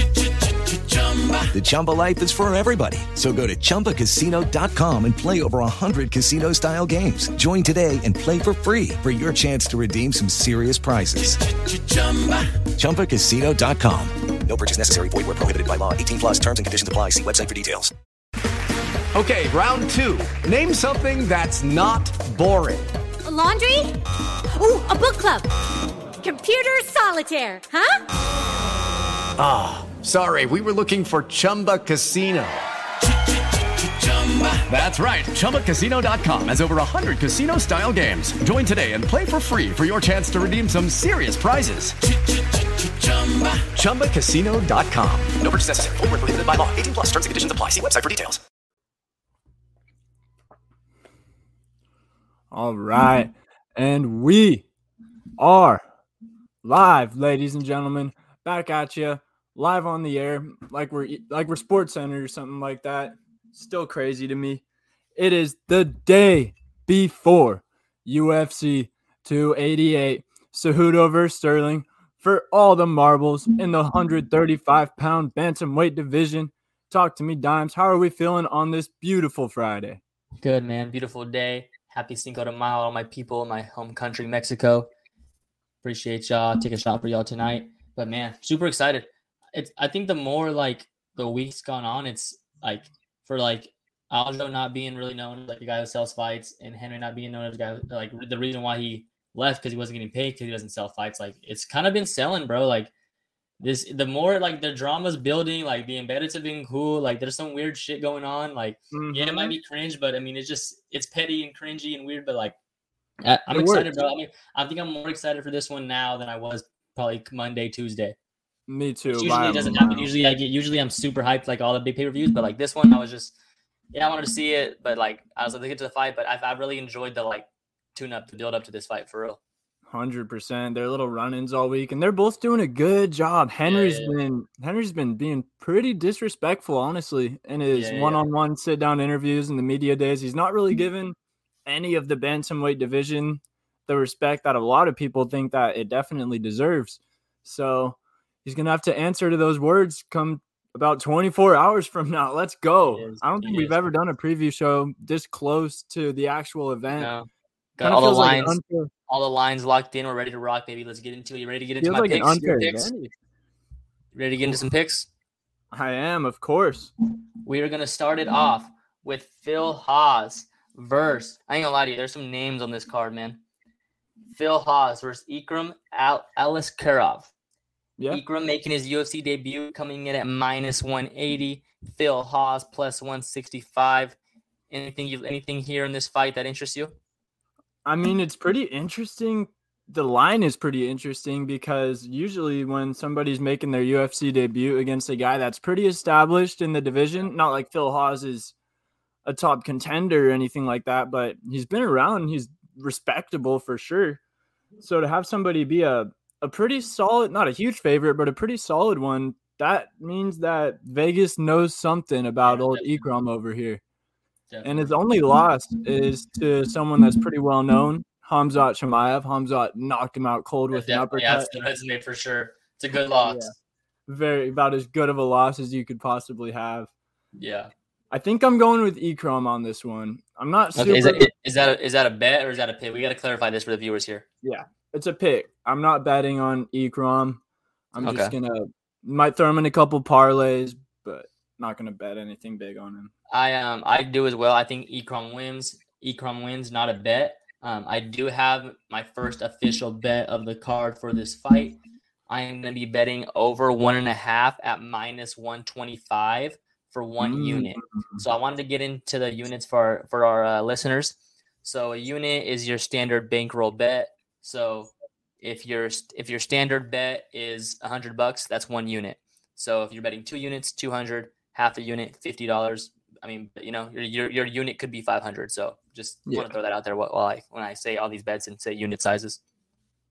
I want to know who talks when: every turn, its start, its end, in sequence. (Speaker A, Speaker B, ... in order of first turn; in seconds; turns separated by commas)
Speaker A: 0.6-1.5, Speaker B: 1.5-11.4, Speaker A: 11.2-12.5, Speaker B: 12.8-17.9, Speaker A: 19.1-22.9, Speaker C: 23.2-23.9, Speaker C: 24.5-25.5, Speaker C: 26.2-28.0, Speaker A: 29.4-32.6, Speaker A: 33.8-45.3, Speaker B: 45.4-48.4, Speaker D: 52.5-54.6, Speaker D: 55.4-55.8, Speaker D: 56.6-64.6, Speaker D: 65.2-80.0, Speaker E: 80.4-84.9, Speaker E: 85.8-102.9, Speaker E: 103.6-112.5, Speaker D: 108.9-109.5, Speaker E: 113.2-118.2, Speaker D: 113.5-113.9, Speaker D: 118.7-120.1, Speaker E: 119.1-123.3, Speaker E: 123.9-129.4, Speaker D: 129.9-157.1, Speaker E: 133.6-134.2, Speaker E: 137.7-138.3, Speaker E: 152.9-153.9, Speaker E: 156.9-162.9, Speaker D: 157.8-158.9, Speaker D: 161.8-163.1, Speaker E: 164.1-165.1, Speaker D: 165.7-166.9, Speaker E: 167.4-173.4, Speaker E: 174.3-177.3, Speaker E: 178.1-184.2, Speaker E: 184.7-186.9, Speaker D: 187.8-198.5, Speaker D: 199.2-204.2, Speaker D: 204.8-213.8, Speaker E: 212.4-213.1, Speaker E: 214.5-214.9, Speaker D: 214.6-221.5, Speaker E: 220.7-223.5, Speaker D: 223.2-223.5, Speaker D: 224.1-226.9, Speaker E: 227.4-227.7, Speaker D: 228.1-231.3, Speaker E: 230.8-234.2, Speaker D: 234.4-237.4, Speaker D: 237.9-243.1, Speaker E: 238.0-238.3, Speaker E: 243.3-251.8, Speaker E: 252.3-279.4, Speaker D: 257.2-258.2, Speaker D: 276.2-276.5